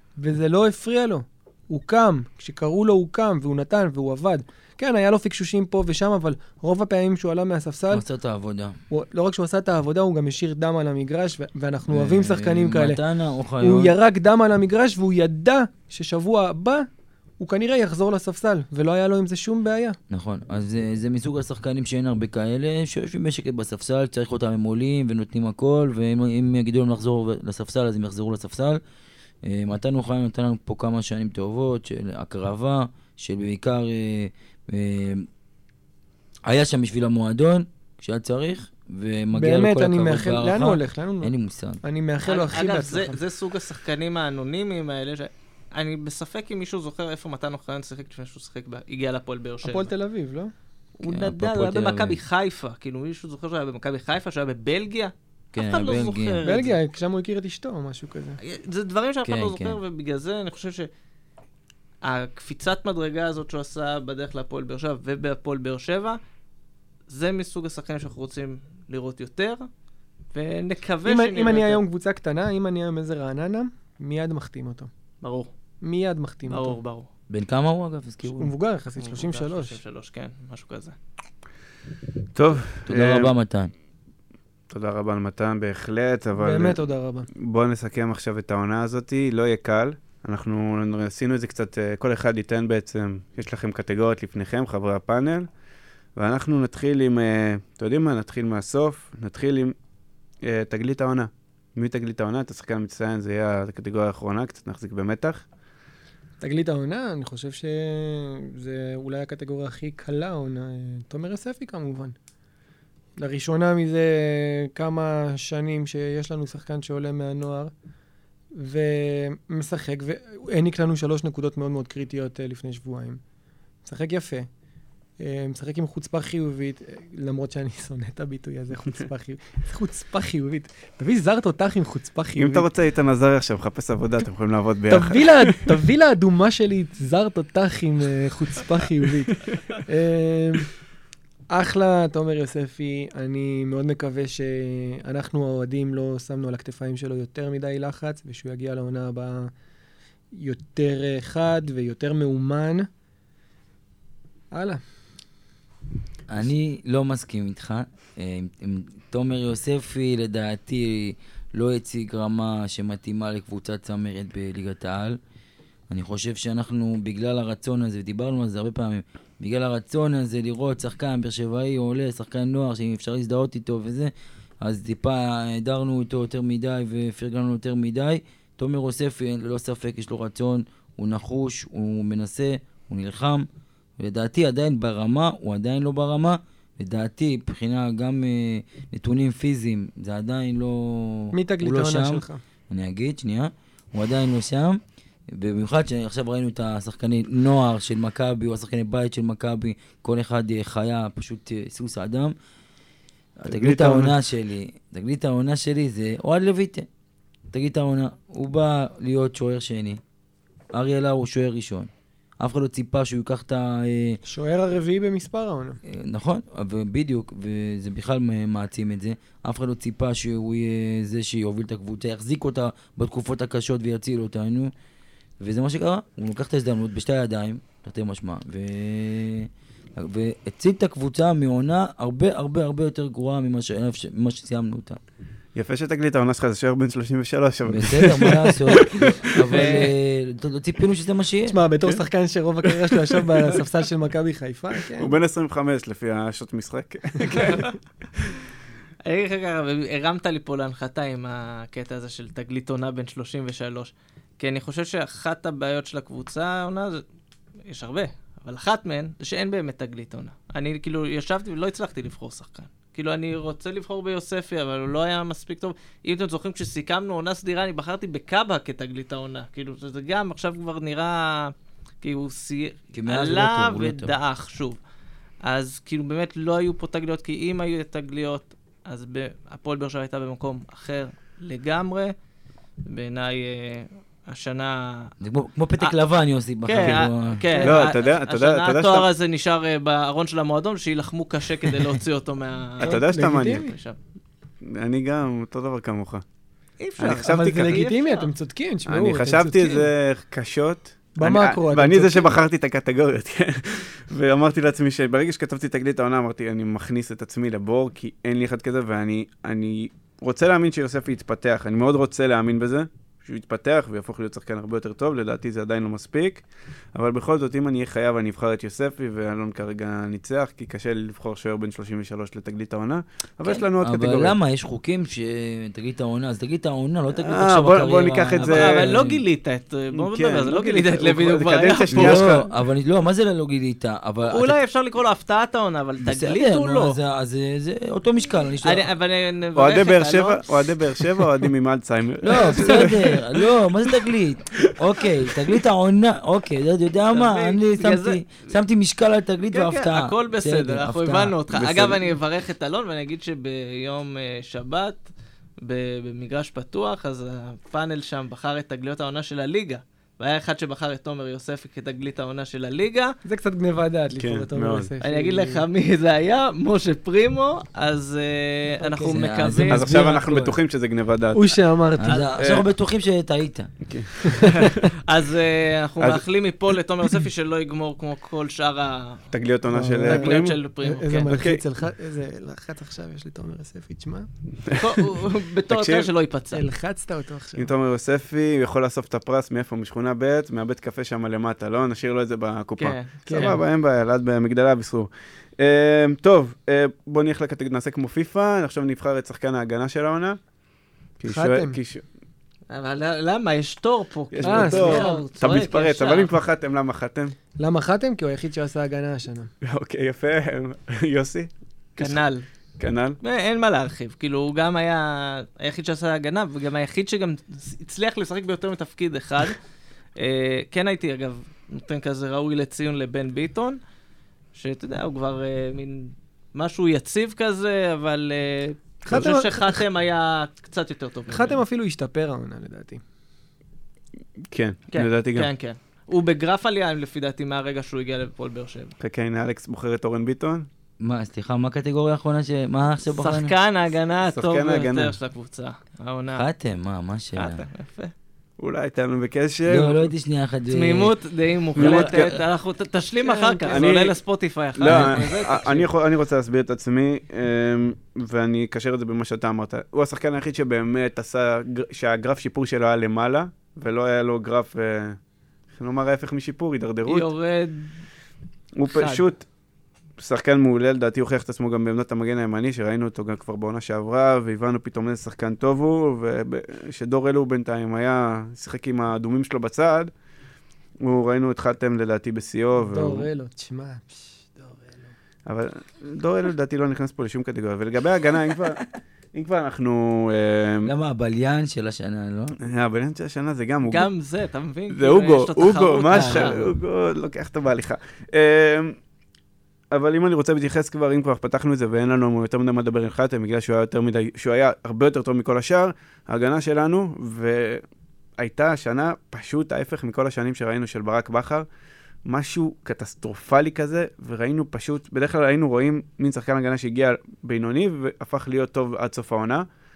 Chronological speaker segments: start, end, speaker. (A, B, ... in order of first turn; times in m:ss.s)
0:00.2-0:08.0 A
0:07.9-0:08.8 B
0:08.9-0:13.0 A
0:11.9-0:13.9 B
0:13.6-0:16.9 A
0:17.4-0:20.0 A
0:20.1-0:28.8 B
0:29.4-0:35.3 B
0:36.4-0:41.8 B
0:39.3-0:43.2 A
0:42.3-0:49.9 C
0:49.6-0:50.5 A
0:51.0-0:56.8 C
0:51.1-0:52.2 B
0:55.5-0:56.4 B
0:56.4-0:58.4 A
0:58.4-1:00.9 C
0:59.3-0:59.8 B
1:02.0-1:06.2 C
1:07.1-1:09.7 C
1:10.3-1:11.8 C
1:11.0-1:14.9 A
1:15.2-1:15.5 C
1:15.8-1:16.8 A
1:16.5-1:17.1 C
1:17.3-1:18.5 B
1:18.4-1:19.8 A
1:19.0-1:21.0 C
1:22.4-1:23.3 D
1:22.9-1:23.7 B
1:24.7-1:26.8 D
1:26.4-1:27.3 A
1:27.4-1:35.5 D
1:36.2-1:39.8 D
1:40.4-1:45.4 D
1:46.4-1:52.2 A
1:53.2-1:57.7 A
1:58.5-2:03.2 A
2:03.8-2:04.5 A
2:05.2-2:12.7 A
2:12.4-2:15.7 D
2:14.9-2:20.7 A
2:21.5-2:29.5 A
2:30.3-2:32.9 A
2:34.5-2:34.8 A
2:36.3-2:45.2 B
2:45.9-3:03.5 B
3:04.0-3:22.4 B
3:11.3-3:12.4 A
3:23.4-3:26.9 B
3:23.5-3:24.2 D
3:27.5-3:30.0 B
3:30.7-3:34.2 B
3:34.3-3:35.8 A
3:35.8-3:44.7 B
3:45.4-3:55.0 B
3:55.6-3:59.7 D
3:57.7-4:01.6 B
3:59.5-4:00.0 C
4:01.5-4:05.2 A
4:03.1-4:03.4 D
4:05.0-4:07.8 D
4:09.0-4:17.0 C
4:17.7-4:34.8 C
4:32.9-4:34.1 B
4:35.4-4:42.1 C
4:42.8-4:45.1 C
4:45.2-4:47.5 B
4:46.6-4:54.0 C
4:47.5-4:47.8 A
4:47.6-4:49.1 D
4:52.8-4:53.7 D
4:52.8-4:53.7 A
4:54.6-4:56.2 D
4:56.8-4:58.3 C
4:57.0-4:57.9 D
4:57.1-4:59.9 A
4:58.9-5:24.4 D
5:01.2-5:02.4 A
5:23.8-5:29.2 B
5:27.1-5:28.9 D
5:28.4-5:32.4 C
5:29.9-5:32.5 D
5:31.9-5:34.6 B
5:34.3-5:37.0 C
5:36.0-5:38.9 B
5:38.6-5:41.0 C
5:39.6-5:43.2 D
5:42.2-5:51.4 B
5:42.6-5:43.0 C
5:47.1-5:48.5 C
5:49.5-5:55.0 C
5:51.5-5:52.1 D
5:55.6-6:03.2 C
6:03.2-6:05.6 A
6:04.1-6:04.9 D
6:05.0-6:10.0 C
6:08.8-6:09.2 A
6:09.1-6:10.6 B
6:09.7-6:11.6 D
6:11.3-6:12.3 A
6:12.0-6:13.7 B
6:12.4-6:12.7 D
6:13.8-6:14.9 D
6:14.2-6:14.7 A
6:14.6-6:19.3 C
6:19.3-6:20.6 D
6:19.7-6:24.3 A
6:20.0-6:21.3 C
6:21.3-6:21.6 D
6:24.6-6:26.1 D
6:24.7-6:26.6 C
6:26.5-6:27.7 A
6:27.6-6:40.4 D
6:32.8-6:33.6 C
6:33.3-6:33.6 A
6:41.2-6:42.0 D
6:41.2-6:41.8 A
6:42.7-6:46.3 C
6:44.3-6:47.4 D
6:44.4-6:45.2 A
6:47.6-6:49.5 A
6:49.6-6:52.2 D
6:52.0-6:52.4 C
6:52.8-6:53.2 D
6:53.2-6:59.6 C
7:00.2-7:03.8 C
7:04.5-7:11.6 C
7:09.0-7:09.8 A
7:11.3-7:13.0 A
7:14.5-7:15.5 D
7:14.9-7:19.0 C
7:19.0-7:20.7 D
7:21.0-7:23.5 B
7:23.2-7:26.4 C
7:24.3-7:25.2 D
7:26.4-7:27.6 B
7:27.4-7:28.1 C
7:28.6-7:30.1 D
7:29.7-7:31.1 B
7:30.7-7:35.9 C
7:31.8-7:32.4 D
7:31.8-7:32.2 B
7:33.2-7:33.9 A
7:33.7-7:34.2 D
7:34.8-7:45.2 D
7:34.9-7:35.2 B
7:45.7-7:47.3 D
7:47.1-7:47.9 C
7:48.8-7:49.4 D
7:48.9-7:49.3 C
7:50.2-8:00.1 D
8:01.0-8:03.3 D
8:02.8-8:05.0 A
8:05.5-8:10.9 D
8:10.8-8:12.6 B
8:12.6-8:14.1 D
8:13.8-8:16.7 C
8:14.9-8:19.0 D
8:16.1-8:16.7 B
8:19.9-8:27.8 D
8:28.4-8:31.7 D
8:32.2-8:39.7 D